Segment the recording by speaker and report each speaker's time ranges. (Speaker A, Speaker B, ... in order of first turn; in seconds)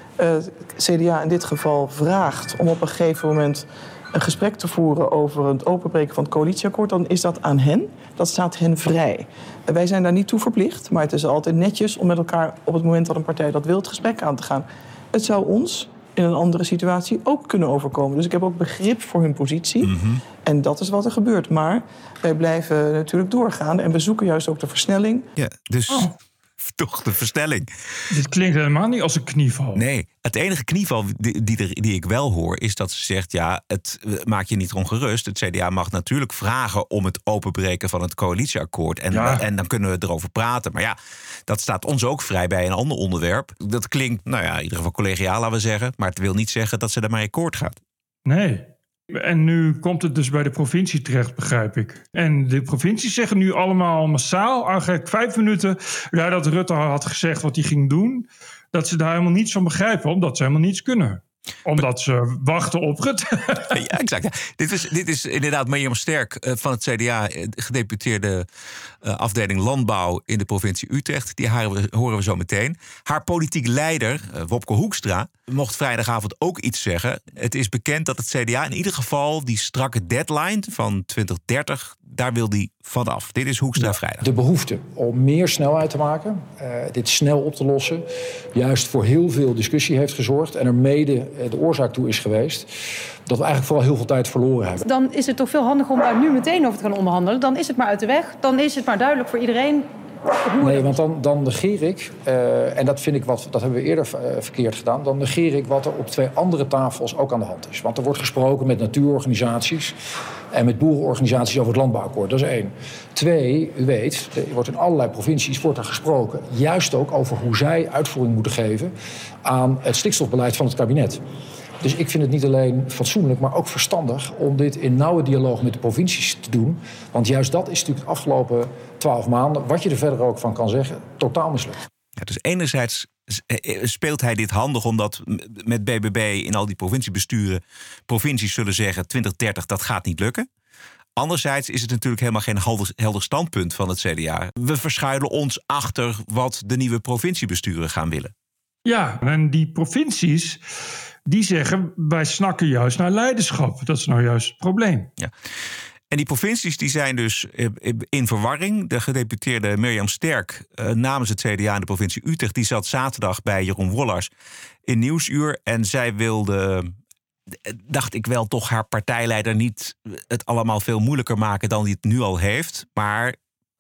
Speaker A: 0.2-25.3
Speaker B: 19.8-20.2, 25.4-27.7, 29.8-47.8, 63.7-68.5, 69.0-84.2, 132.2-140.5, 141.2-148.3, 156.1-164.3, 164.9-166.9, 167.6-173.3
Speaker C: 28.1-29.8, 39.1-39.4, 48.2-63.7, 148.8-150.6, 151.3-155.1
Speaker D: 84.2-92.7, 93.2-94.8, 100.6-110.0, 110.5-118.9, 119.4-121.2, 121.8-131.8
Speaker E: 94.8-99.9, 100.4-100.9